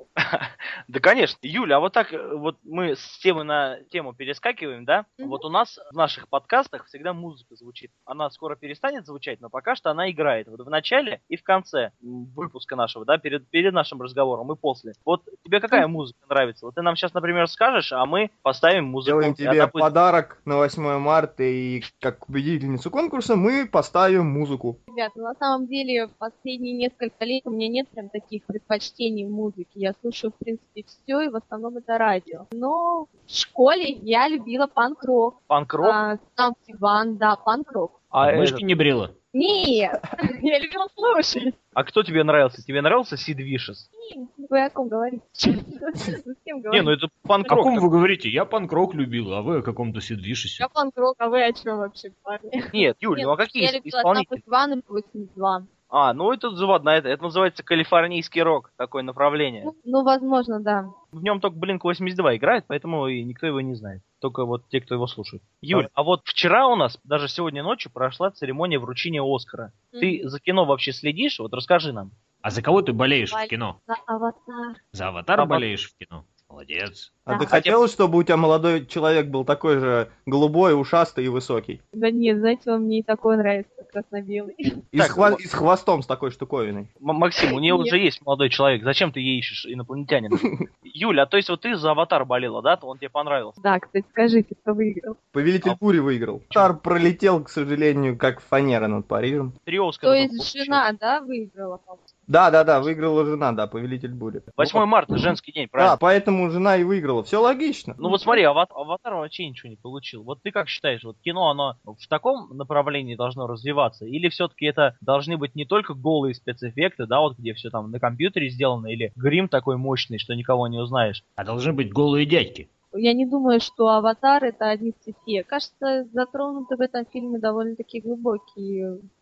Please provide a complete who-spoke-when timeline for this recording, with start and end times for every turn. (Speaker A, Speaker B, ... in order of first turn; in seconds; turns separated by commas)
Speaker A: 0.2-19.9, Speaker B: 19.1-24.8, Speaker C: 24.9-37.9, Speaker A: 35.5-36.0, Speaker A: 38.1-38.6, Speaker D: 38.2-39.1, Speaker C: 39.3-41.6, Speaker A: 41.8-43.9, Speaker C: 44.0-46.9, Speaker A: 46.7-47.9, Speaker D: 47.5-50.7, Speaker C: 50.6-55.7, Speaker A: 52.7-54.4, Speaker A: 55.9-59.7, Speaker C: 59.6-60.9, Speaker A: 61.1-72.1, Speaker C: 69.9-70.2, Speaker D: 72.4-73.8, Speaker C: 73.3-74.8, Speaker D: 74.9-77.1, Speaker A: 75.4-75.7, Speaker B: 77.3-81.8, Speaker A: 77.5-77.8, Speaker C: 81.9-84.7, Speaker B: 84.9-86.9, Speaker A: 85.0-85.4, Speaker A: 87.0-93.6, Speaker C: 87.5-88.0, Speaker C: 93.6-95.2, Speaker B: 95.3-99.5, Speaker A: 99.7-100.8, Speaker C: 100.0-102.1, Speaker B: 102.3-104.9, Speaker A: 104.6-106.0, Speaker B: 105.8-108.0, Speaker A: 108.0-121.2, Speaker C: 108.0-108.4, Speaker D: 121.4-122.7, Speaker C: 122.9-129.0